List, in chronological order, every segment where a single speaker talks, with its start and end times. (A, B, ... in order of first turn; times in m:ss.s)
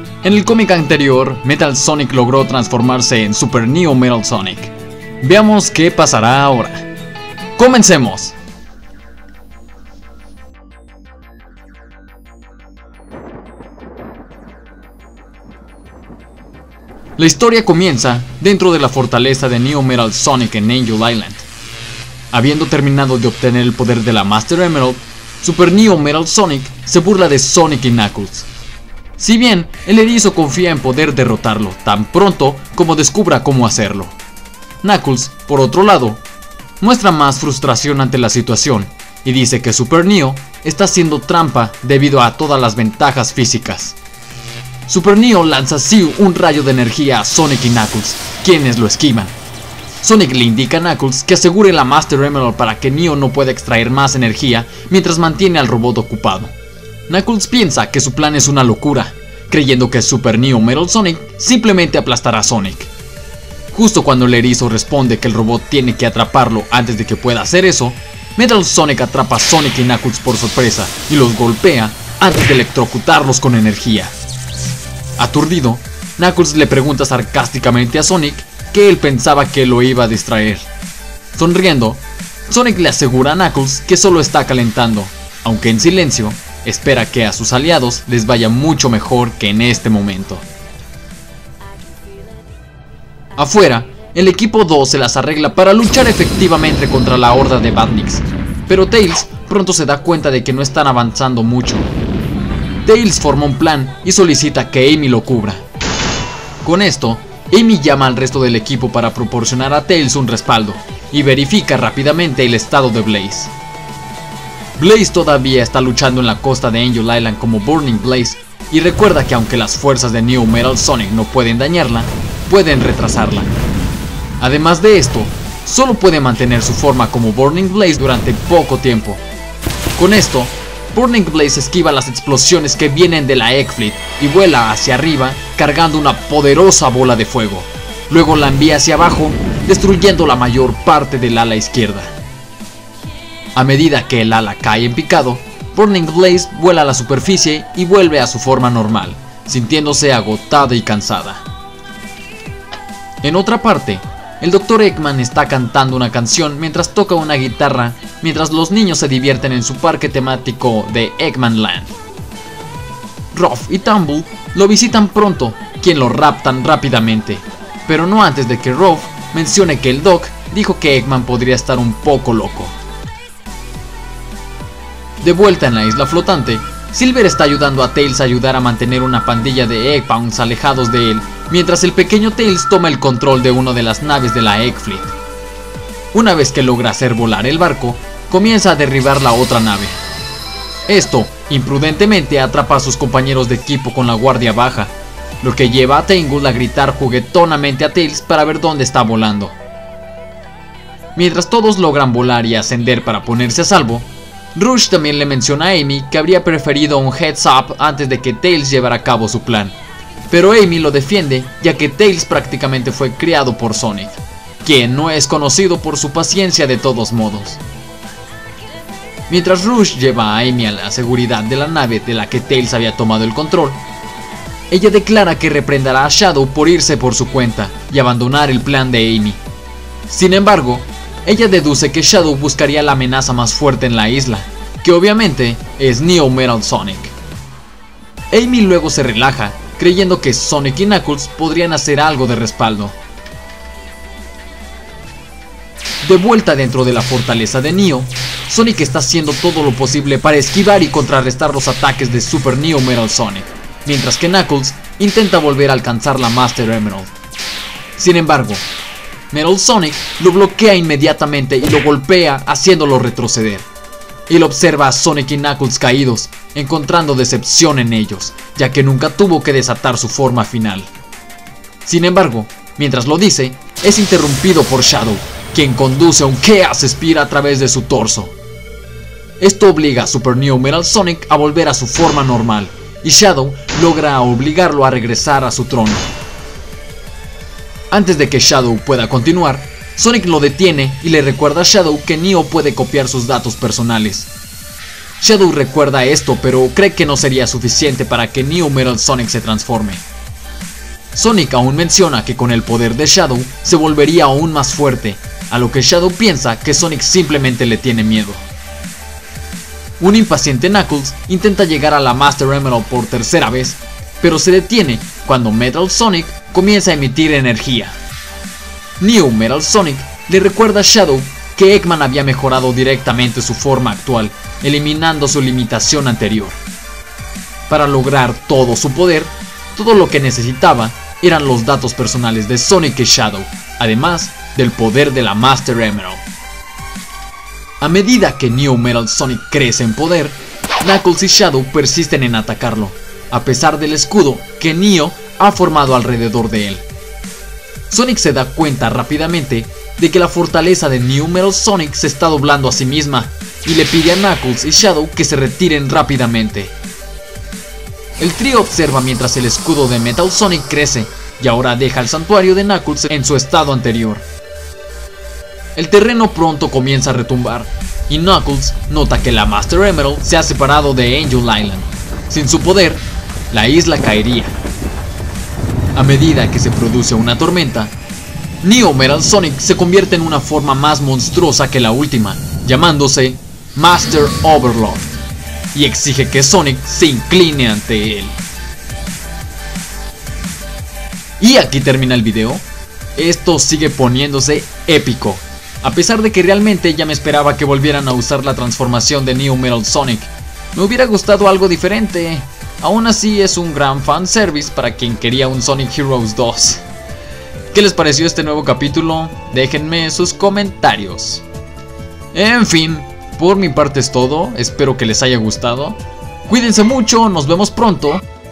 0:00.2-0:06.9 A
0:07.6-0:08.4 A
0:17.2-0:21.4 A
0:22.3-0:28.5 A
0:29.2-0:34.2 A
0:34.8-0:36.2 A
0:36.8-0:44.0 A
0:44.9-0:49.4 A
0:50.0-0:56.5 A
0:57.1-1:02.9 A
1:03.7-1:14.1 A
1:15.2-1:20.7 A
1:21.3-1:30.5 A
1:33.4-1:41.9 A
1:42.8-1:45.6 A
1:46.6-1:53.5 A
1:54.8-2:03.5 A
2:04.4-2:09.2 A
2:10.0-2:22.1 A
2:23.5-2:31.4 A
2:33.2-2:42.0 A
2:43.3-2:52.8 A
2:55.2-3:05.2 A
3:06.1-3:10.0 A
3:10.9-3:19.6 A
3:21.1-3:29.8 A
3:30.3-3:37.6 A
3:39.3-3:43.8 A
3:44.7-3:49.4 A
3:50.1-3:57.1 A
3:58.3-4:03.0 A
4:06.0-4:17.1 A
4:18.0-4:18.7 A
4:19.3-4:23.7 A
4:24.3-4:30.9 A
4:31.8-4:38.4 A
4:39.4-4:46.1 A
4:47.9-4:54.3 A
4:55.2-5:00.0 A
5:01.1-5:08.5 A
5:10.0-5:18.0 A
5:19.0-5:26.6 A
5:27.7-5:36.2 A
5:37.8-5:46.8 A
5:47.9-5:56.7 A
5:58.2-6:04.2 A
6:05.8-6:14.6 A
6:15.9-6:17.9 A
6:18.6-6:25.2 A
6:25.7-6:28.4 A
6:31.4-6:32.6 A
6:33.2-6:46.8 A
6:47.7-6:51.4 A
6:52.3-6:58.2 A